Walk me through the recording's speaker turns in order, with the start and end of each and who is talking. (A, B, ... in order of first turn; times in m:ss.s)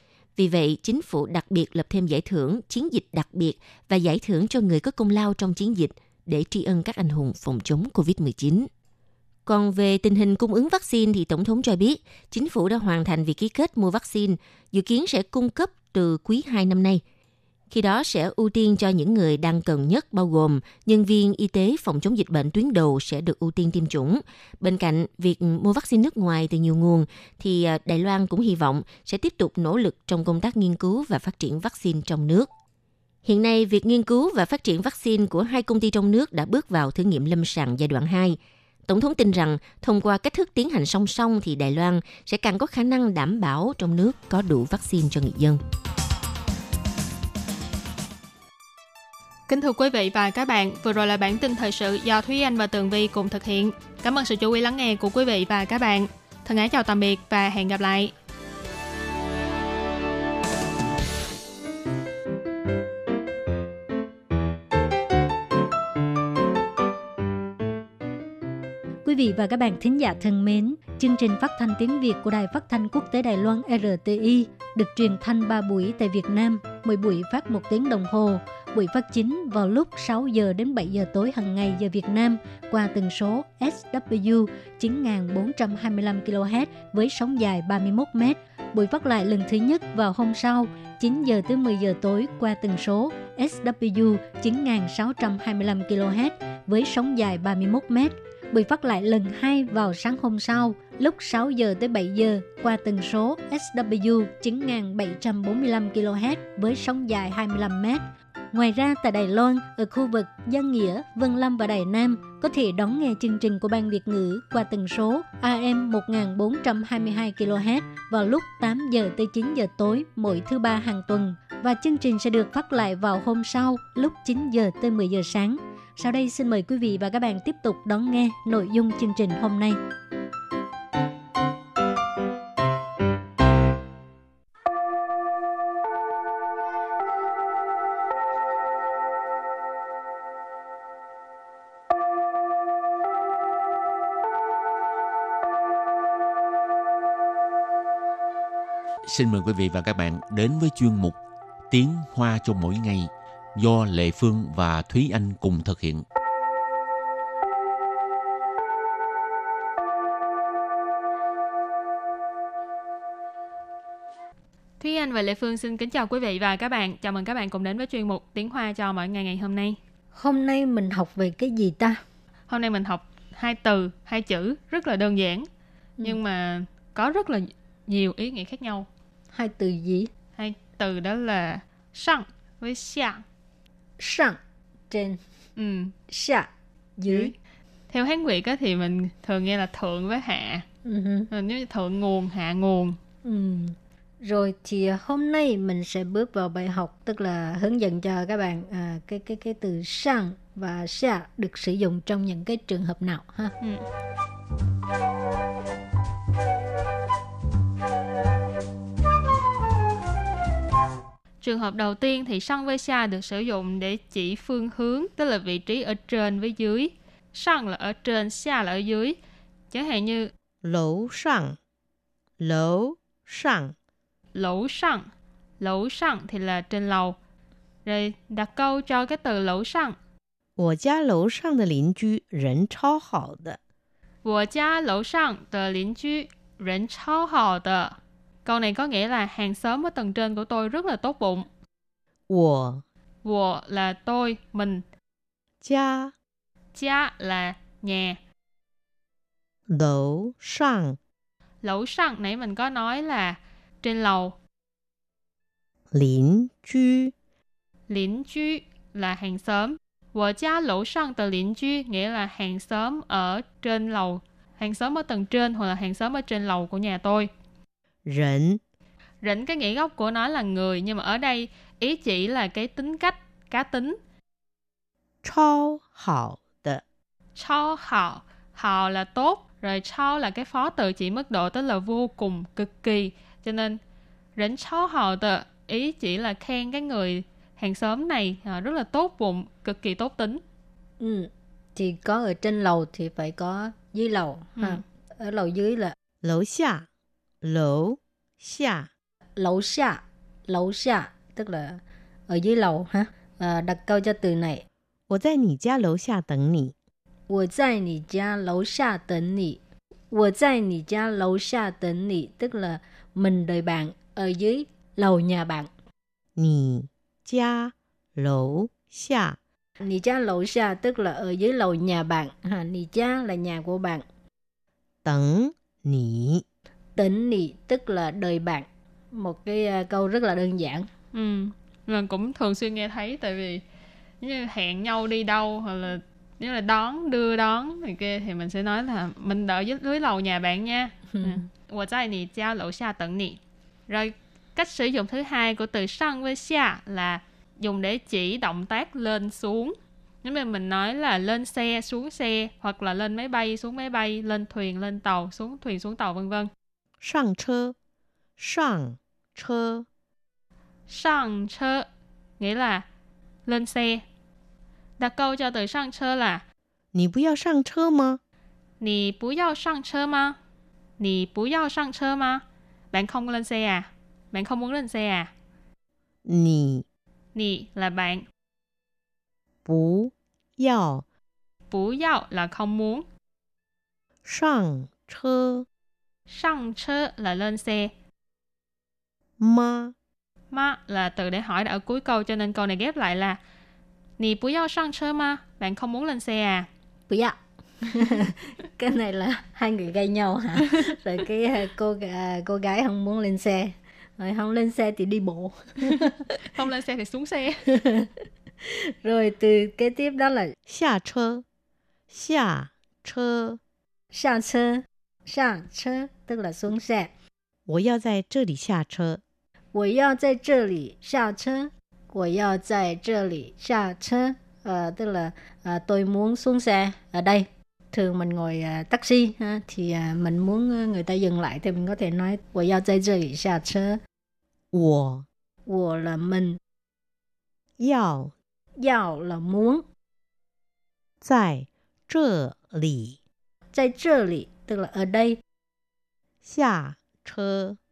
0:00.4-0:08.7 A
0:09.4-0:17.0 A
0:17.7-0:32.5 A
0:33.2-0:45.6 A
0:49.5-0:58.1 B
1:09.0-2:09.8 C
2:29.0-2:31.2 D
2:31.7-2:36.0 D
2:44.8-2:49.8 B
2:50.1-2:52.0 C
2:52.5-2:55.5 B
2:56.0-2:58.9 B
2:59.3-3:00.1 C
3:00.4-3:03.2 B
3:04.0-3:05.2 C
3:05.6-3:05.9 B
3:06.1-3:07.3 C
3:07.1-3:07.3 B
3:07.9-3:10.6 B
3:10.8-3:11.3 C
3:11.3-3:13.0 B
3:13.2-3:23.5 C
3:31.4-3:39.2 B
3:39.7-3:40.3 B
3:40.6-3:41.6 E
3:42.4-3:43.7 E
3:44.3-3:45.1 B
3:45.6-3:47.2 B
3:47.8-3:50.0 B
3:50.6-3:53.6 E
3:54.2-4:01.5 B
4:02.3-4:02.8 E
4:03.2-4:04.8 B
4:05.6-4:06.1 E
4:06.7-4:08.2 B
4:09.7-4:11.0 E
4:11.6-4:14.4 B
4:15.9-4:17.1 E
4:17.9-4:27.3 B
4:28.0-4:28.6 E
4:29.2-4:34.0 B
4:35.2-4:36.8 E
4:37.4-4:43.8 B
4:44.4-4:50.4 B
4:51.0-4:55.9 C
4:54.6-4:54.8 B
4:56.2-4:56.9 E
4:57.4-4:58.9 E
4:59.4-5:04.6 C
5:05.1-5:06.7 E
5:07.3-5:09.6 C
5:10.1-5:15.7 C
5:16.4-5:19.4 E
5:19.8-5:24.0 C
5:25.0-5:26.4 E
5:27.0-5:30.9 C
5:31.1-5:33.6 B
5:34.2-5:56.5 B
5:41.1-5:41.4 C
5:57.0-5:57.7 E
5:58.4-5:59.8 E
6:00.9-6:01.9 B
6:02.4-6:02.8 B
6:03.4-6:04.0 B
6:05.0-6:06.4 B
6:06.9-6:08.2 E
6:08.8-6:10.4 B
6:11.0-6:15.3 B
6:16.2-6:16.8 E
6:17.3-6:18.2 B
6:19.6-6:21.0 E
6:21.7-6:23.0 B
6:24.2-6:25.6 E
6:26.3-6:27.9 B
6:29.4-6:29.9 E
6:30.5-6:33.4 B
6:34.2-6:36.7 B
6:37.1-6:46.4 C
6:46.5-6:47.7 B
6:47.7-6:50.5 C
6:50.6-6:51.4 E
6:52.1-6:53.6 E
6:54.1-6:57.1 C
6:57.7-6:59.2 E
6:59.7-7:14.0 C
7:14.7-7:15.2 E
7:15.7-7:16.6 C
7:17.8-7:18.3 E
7:18.8-7:19.8 C
7:21.2-7:23.2 E
7:23.7-7:25.4 C
7:26.4-7:27.8 E